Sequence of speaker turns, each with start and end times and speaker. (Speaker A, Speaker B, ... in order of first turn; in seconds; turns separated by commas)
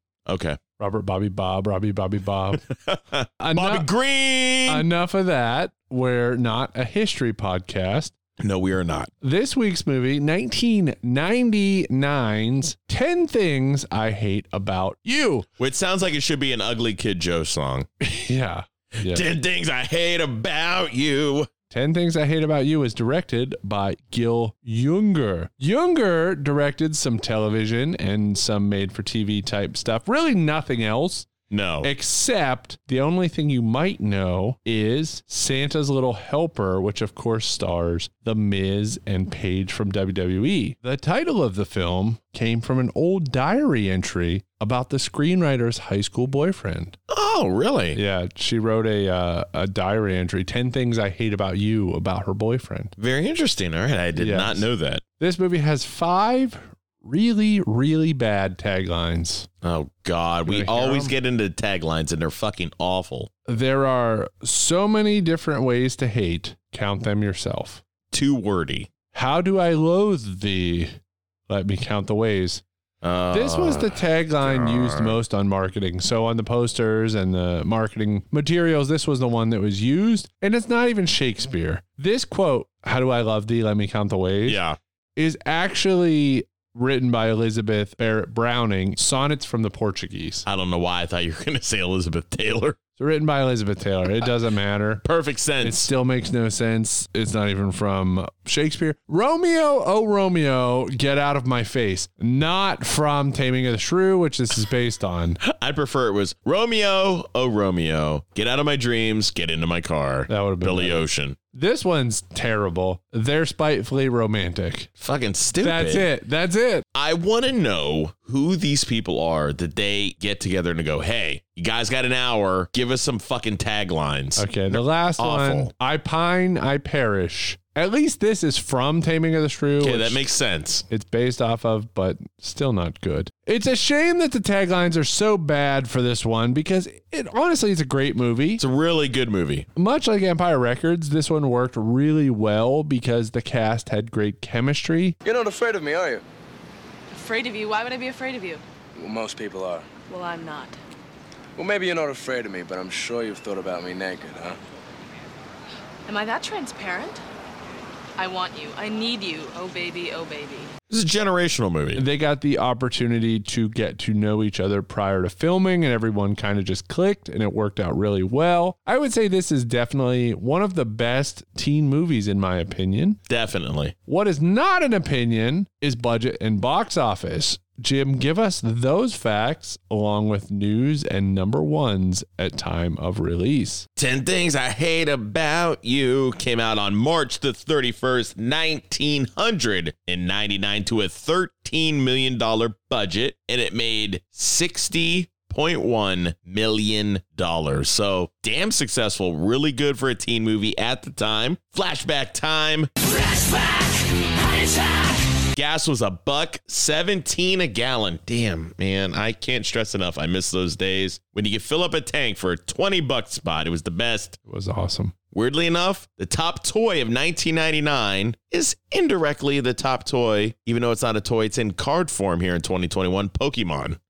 Speaker A: 0.2-0.6, Speaker B: 0.8-2.6, Speaker A: 2.5-4.8, Speaker B: 3.4-3.9, Speaker B: 4.7-8.1, Speaker A: 8.4-9.1, Speaker B: 9.2-15.5, Speaker A: 15.6-17.9, Speaker B: 18.0-19.2, Speaker A: 19.0-21.5, Speaker B: 21.7-31.3, Speaker A: 31.5-31.9, Speaker B: 31.8-47.0, Speaker A: 47.1-48.0, Speaker B: 47.9-52.9, Speaker A: 53.0-55.0, Speaker B: 54.1-54.6, Speaker B: 55.2-59.5, Speaker A: 59.6-63.3, Speaker B: 60.5-61.1, Speaker B: 63.5-67.8, Speaker A: 68.1-68.9, Speaker B: 69.1-71.0, Speaker B: 71.5-72.6, Speaker A: 73.0-75.2, Speaker B: 73.3-84.6, Speaker A: 84.4-84.8, Speaker B: 85.2-90.5, Speaker A: 90.5-92.8, Speaker B: 93.0-95.0, Speaker A: 95.0-95.9, Speaker B: 95.6-105.4, Speaker A: 105.4-111.4, Speaker B: 110.3-114.9, Speaker A: 115.0-116.1, Speaker B: 115.6-116.8, Speaker A: 116.9-125.7, Speaker B: 124.4-130.2, Speaker A: 129.8-130.8, Speaker B: 130.9-138.6, Speaker A: 138.6-139.7, Speaker B: 139.8-145.2, Speaker C: 145.2-146.2, Speaker D: 147.1-148.6, Speaker C: 148.9-149.9, Speaker D: 150.1-150.8, Speaker C: 151.6-154.6, Speaker D: 156.1-157.2, Speaker D: 158.2-160.7, Speaker A: 160.9-162.0, Speaker B: 161.9-173.2, Speaker A: 173.3-173.9, Speaker B: 174.1-183.8, Speaker A: 184.0-203.9, Speaker A: 205.5-214.4, Speaker B: 214.4-215.1, Speaker A: 215.3-224.0